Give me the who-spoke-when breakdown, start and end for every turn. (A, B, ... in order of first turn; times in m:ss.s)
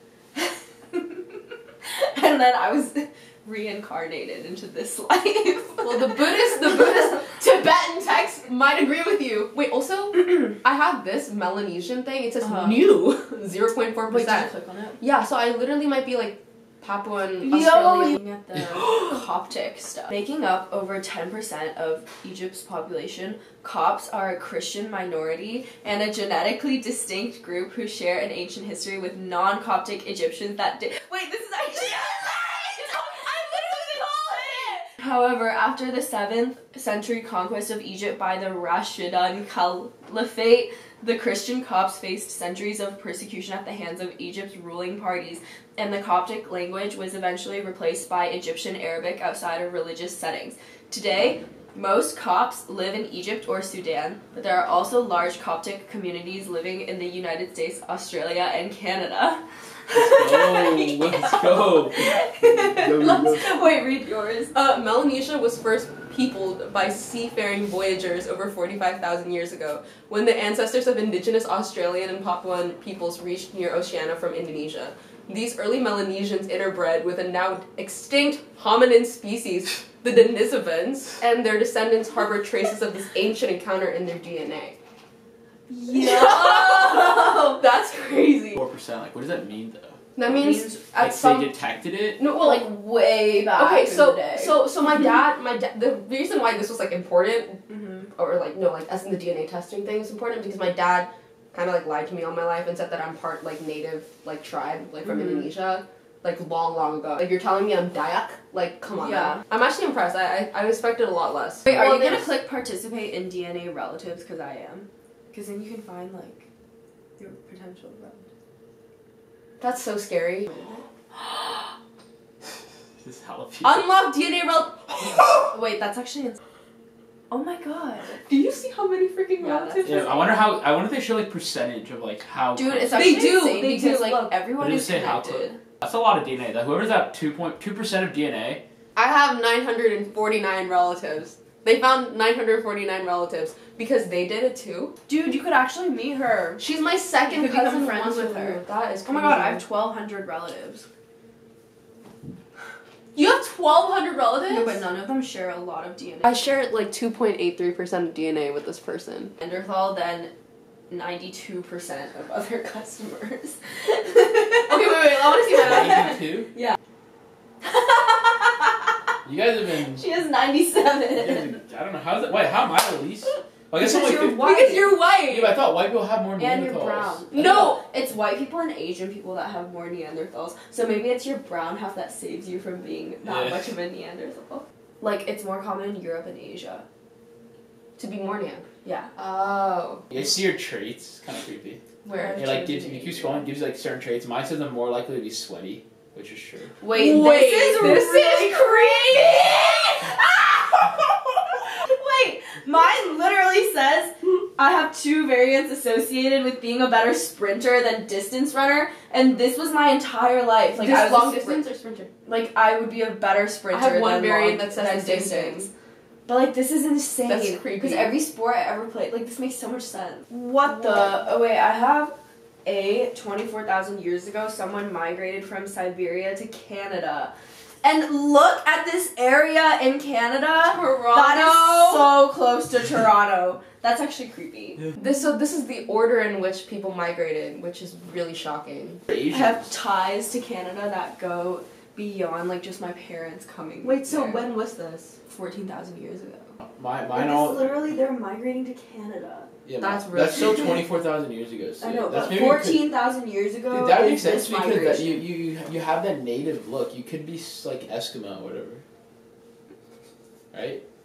0:00.4-0:01.2 A
0:01.8-0:06.8 A
0:05.8-0:18.2 B
0:12.4-0:12.8 A
0:14.1-0:15.0 A
0:17.4-1:04.5 A
0:59.9-1:02.1 C
1:02.8-1:03.5 C
1:04.5-1:24.8 B
1:25.7-1:27.6 A
1:25.9-1:28.6 B
1:28.5-1:30.0 C
1:30.2-1:31.5 B
1:30.2-1:30.8 A
1:30.9-1:32.2 C
1:32.2-1:32.7 B
1:32.3-1:34.6 A
1:33.5-1:37.6 B
1:37.7-1:38.1 A
1:38.1-1:52.3 B
1:49.0-1:49.4 A
1:51.7-1:56.4 A
1:57.2-1:58.2 A
1:59.6-2:00.7 B
2:00.5-2:00.8 A
2:03.0-2:03.9 C
2:03.6-2:05.5 B
2:05.5-2:06.4 A
2:07.3-2:08.2 A
2:08.2-2:10.4 B
2:09.4-2:10.2 A
2:09.8-2:13.2 C
2:12.5-2:15.6 A
2:12.9-2:14.4 B
2:14.6-2:18.6 C
2:18.9-2:24.9 B
2:25.1-2:26.6 A
2:26.6-2:29.6 B
2:27.2-2:30.8 A
2:33.1-2:34.8 B
2:34.5-2:36.3 A
2:36.2-2:39.3 B
2:39.4-2:40.3 A
2:40.9-2:46.7 A
2:44.6-2:46.1 B
2:45.5-2:46.5 C
2:47.6-2:48.9 A
2:49.2-2:50.1 C
2:49.9-2:51.6 A
2:51.1-2:57.8 C
2:53.8-2:55.3 B
2:54.2-2:55.4 A
2:56.4-3:06.8 A
2:57.3-2:57.8 B
3:03.2-3:03.6 C
3:08.0-3:10.0 B
3:08.8-3:09.1 A
3:10.1-3:11.8 C
3:12.0-3:12.5 A
3:12.1-3:13.2 B
3:12.3-3:16.7 C
3:16.8-3:31.6 A
3:16.9-3:18.9 B
3:30.8-3:32.1 B
3:32.2-3:35.7 A
3:33.7-3:35.7 B
3:36.2-3:54.8 A
3:37.2-3:38.2 B
3:40.6-3:41.2 B
3:50.6-3:52.1 B
3:55.0-3:59.0 B
3:59.1-3:59.6 C
3:59.3-4:04.5 A
4:03.8-4:05.2 B
4:05.3-4:06.5 A
4:06.6-4:07.9 C
4:07.1-4:09.5 A
4:09.6-4:12.9 C
4:09.8-4:10.8 B
4:11.8-4:15.2 A
4:13.7-4:18.8 C
4:20.5-4:20.8 C